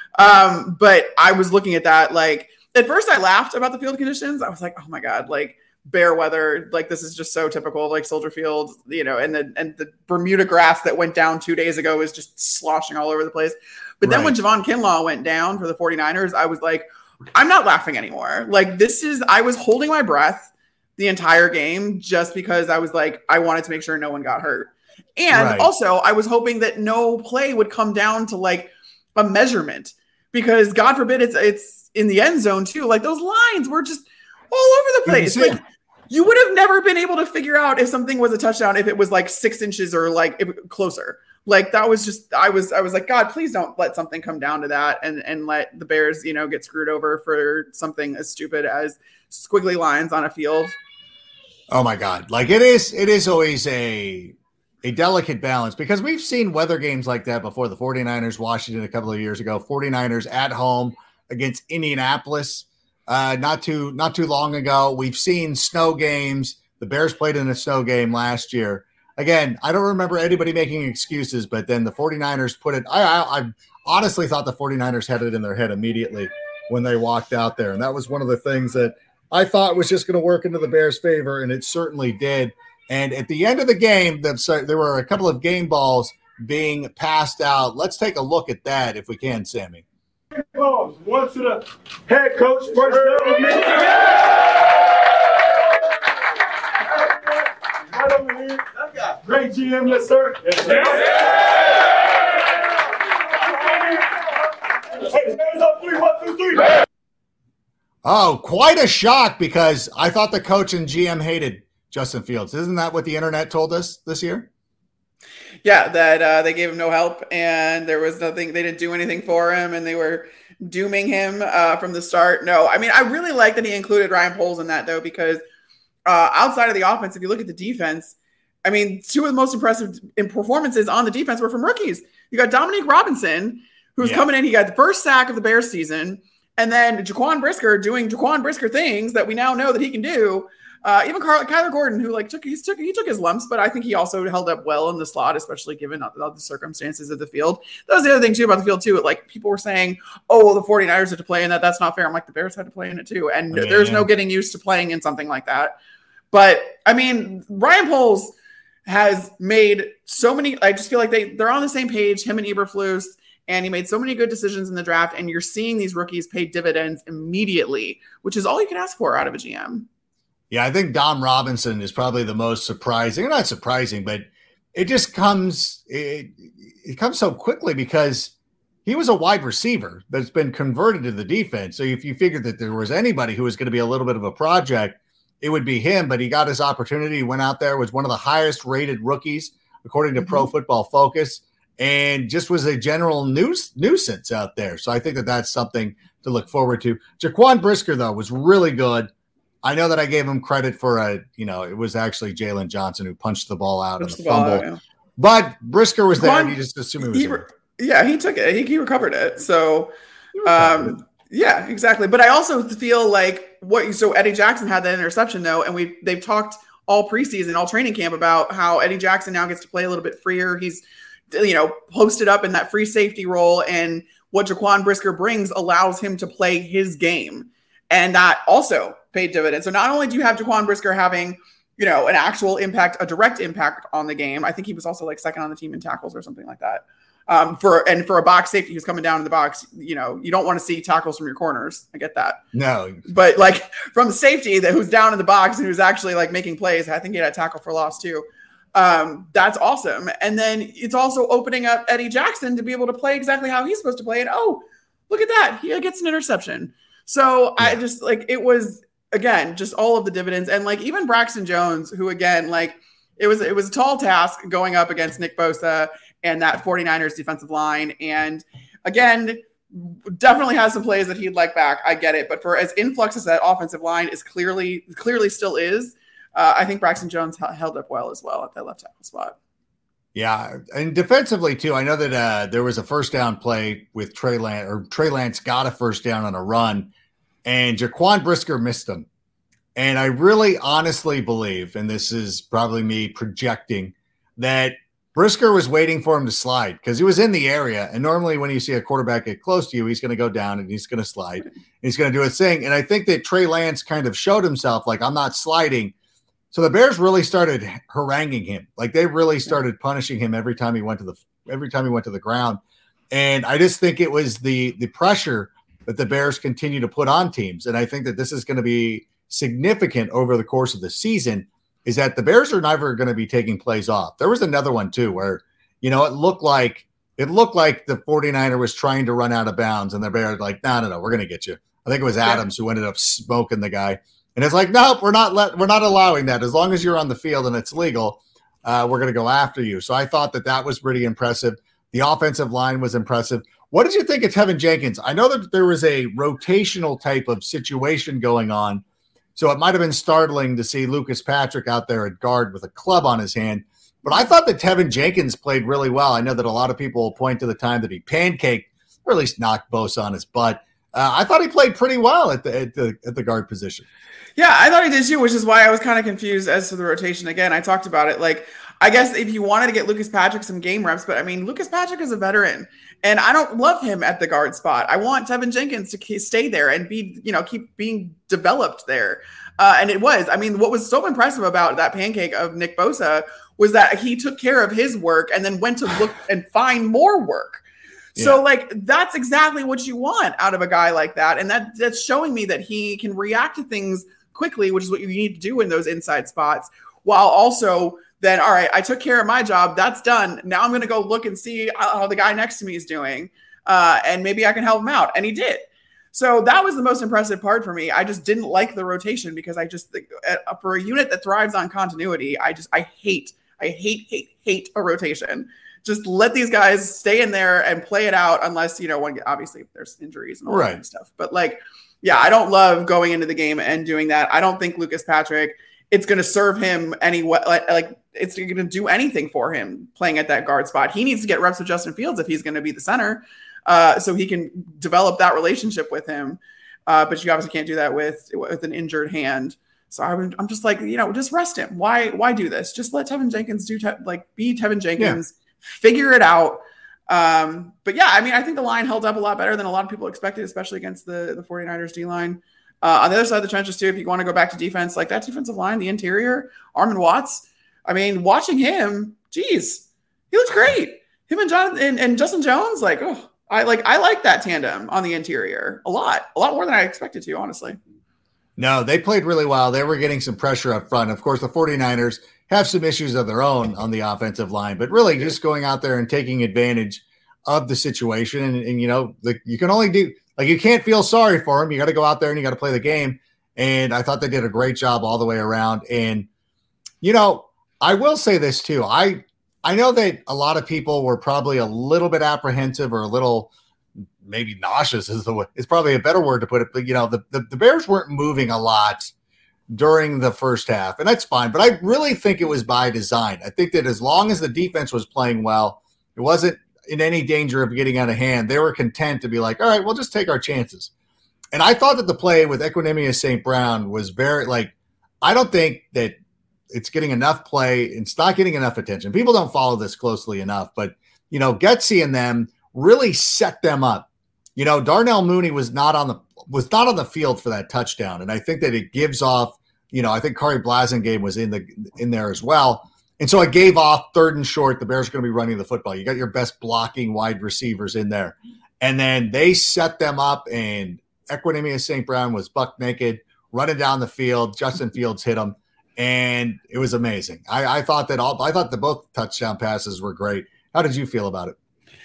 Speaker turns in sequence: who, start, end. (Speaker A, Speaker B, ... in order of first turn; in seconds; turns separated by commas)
Speaker A: 0.1-50.8, Speaker B: 14.0-14.4, Speaker B: 25.3-25.7, Speaker B: 35.0-35.6, Speaker B: 51.7-89.8, Speaker C: 90.3-94.1, Speaker C: 97.9-101.2, Speaker C: 103.4-104.0, Speaker C: 105.0-106.8, Speaker B: 108.0-114.5, Speaker A: 115.6-125.4, Speaker A: 126.0-155.7, Speaker B: 153.5-154.1, Speaker A: 156.3-158.3, Speaker A: 158.8-169.9, Speaker B: 170.5-178.3, Speaker B: 178.8-199.1, Speaker A: 190.2-190.4, Speaker B: 199.6-204.6, Speaker A: 204.0-204.8, Speaker B: 205.2-207.4, Speaker A: 206.2-209.9, Speaker B: 210.4-211.0, Speaker A: 210.4-242.4, Speaker B: 242.5-243.0, Speaker A: 243.1-279.4, Speaker B: 280.1-286.9, Speaker B: 287.4-289.1, Speaker B: 289.8-305.9, Speaker B: 306.5-312.6, Speaker B: 313.1-348.8, Speaker B: 349.3-363.9, Speaker A: 364.4-387.6, Speaker A: 388.1-467.8, Speaker B: 420.5-420.8, Speaker B: 468.6-486.3, Speaker B: 487.0-493.5, Speaker B: 494.2-499.1, Speaker B: 499.7-510.9, Speaker B: 511.5-516.2, Speaker B: 516.7-551.5